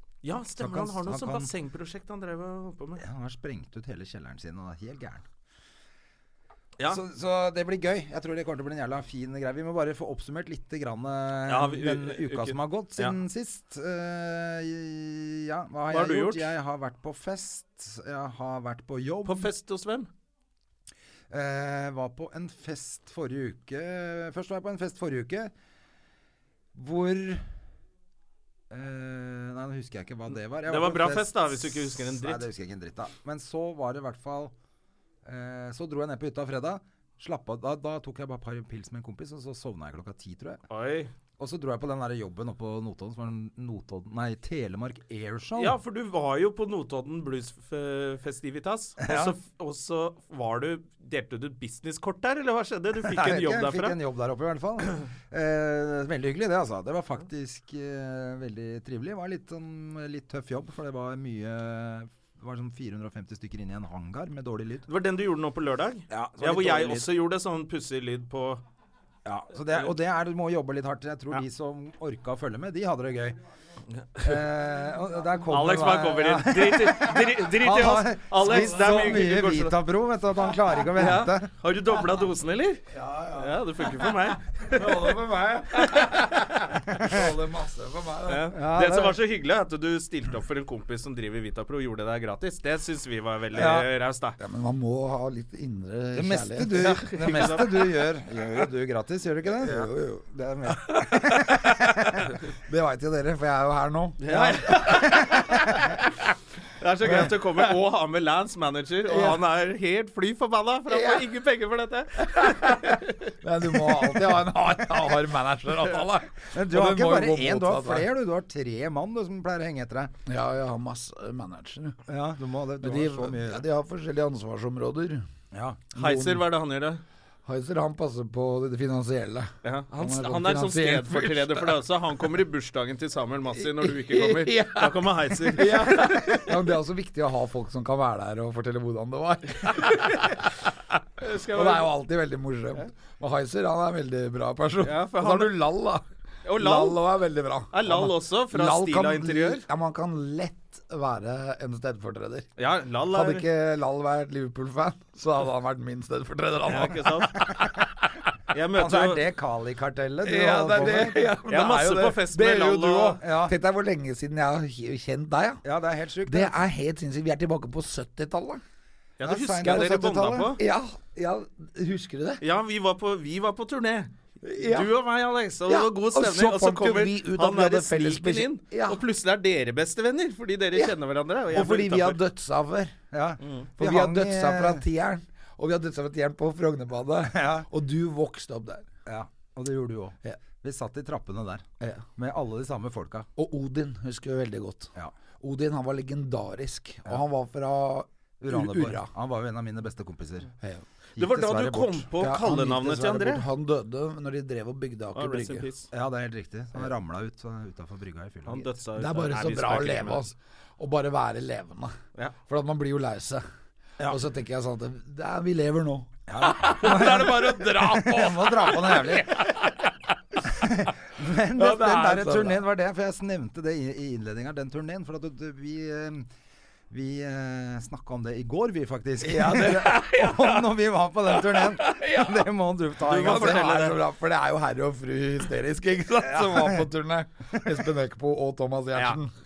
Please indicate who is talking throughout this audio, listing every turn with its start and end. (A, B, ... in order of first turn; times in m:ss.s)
0:00.2-0:03.0 A
0:00.6-0:01.5 B
0:03.0-0:05.2 B
0:06.8-0:19.5 B
0:11.4-0:13.2 A
0:15.9-0:16.5 A
0:19.2-0:20.1 A
0:21.3-0:25.5 B
0:26.7-0:27.5 B
0:28.7-0:34.5 B
0:30.6-0:32.4 A
0:35.2-0:40.6 B
0:40.7-0:41.1 A
0:41.4-0:45.8 B
0:45.6-0:54.0 A
0:49.0-0:49.4 B
0:53.0-1:04.9 B
1:04.9-1:08.6 A
1:06.1-1:07.1 B
1:09.2-1:13.4 B
1:14.2-1:21.5 B
1:15.5-1:19.8 A
1:18.5-1:19.2 C
1:20.9-1:22.8 A
1:22.9-1:24.1 C
1:23.4-1:25.2 A
1:24.7-1:28.5 C
1:28.3-1:34.4 A
1:28.5-1:29.2 B
1:33.5-1:33.9 B
1:34.4-1:37.3 C
1:36.1-1:42.2 B
1:36.7-1:37.9 A
1:39.5-1:44.2 C
1:44.2-1:46.0 A
1:44.3-1:45.8 B
1:46.8-1:53.1 A
1:47.0-1:47.3 B
1:47.1-1:47.5 C
1:49.1-1:49.4 C
1:50.9-1:51.2 C
1:52.2-1:58.1 C
1:56.5-2:00.1 B
2:00.2-2:02.0 C
2:02.1-2:03.6 B
2:02.8-2:05.3 C
2:05.5-2:05.8 B
2:05.9-2:06.4 C
2:06.0-2:07.0 A
2:07.4-2:11.8 C
2:09.6-2:16.5 A
2:13.6-2:20.5 C
2:19.7-2:20.4 A
2:21.2-2:21.9 A
2:21.5-2:26.0 C
2:24.8-2:25.6 A
2:26.4-2:27.0 A
2:26.6-2:32.5 C
2:27.7-2:29.6 A
2:32.6-2:33.4 A
2:33.1-2:37.7 C
2:36.7-2:37.6 A
2:38.5-2:39.2 A
2:38.7-2:41.3 B
2:40.2-2:45.6 C
2:41.5-2:43.2 A
2:43.2-2:43.5 B
2:45.6-2:46.6 B
2:46.2-2:48.6 C
2:49.2-2:50.6 A
2:49.2-2:50.6 B
2:49.6-2:52.4 C
2:52.4-3:02.2 A
2:54.4-2:54.9 C
2:55.7-2:59.0 C
3:01.5-3:02.9 C
3:03.1-3:04.8 B
3:03.4-3:03.7 A
3:03.8-3:08.8 C
3:07.2-3:07.7 B
3:09.0-3:11.6 B
3:11.8-3:12.0 C
3:12.2-3:13.3 B
3:13.4-3:19.1 C
3:18.4-3:20.5 B
3:21.2-3:22.1 B
3:21.2-3:23.4 A
3:22.2-3:25.7 C
3:25.1-3:25.9 A
3:25.9-3:28.7 B
3:28.5-3:30.2 A
3:28.9-3:32.0 C
3:32.5-3:33.4 C
3:34.1-3:40.6 C
3:36.3-3:39.5 B
3:40.4-3:46.3 B
3:41.5-3:42.6 C
3:46.9-3:53.7 B
3:49.2-3:52.5 C
3:53.0-3:54.0 A
3:53.1-3:59.3 C
3:56.2-3:56.9 B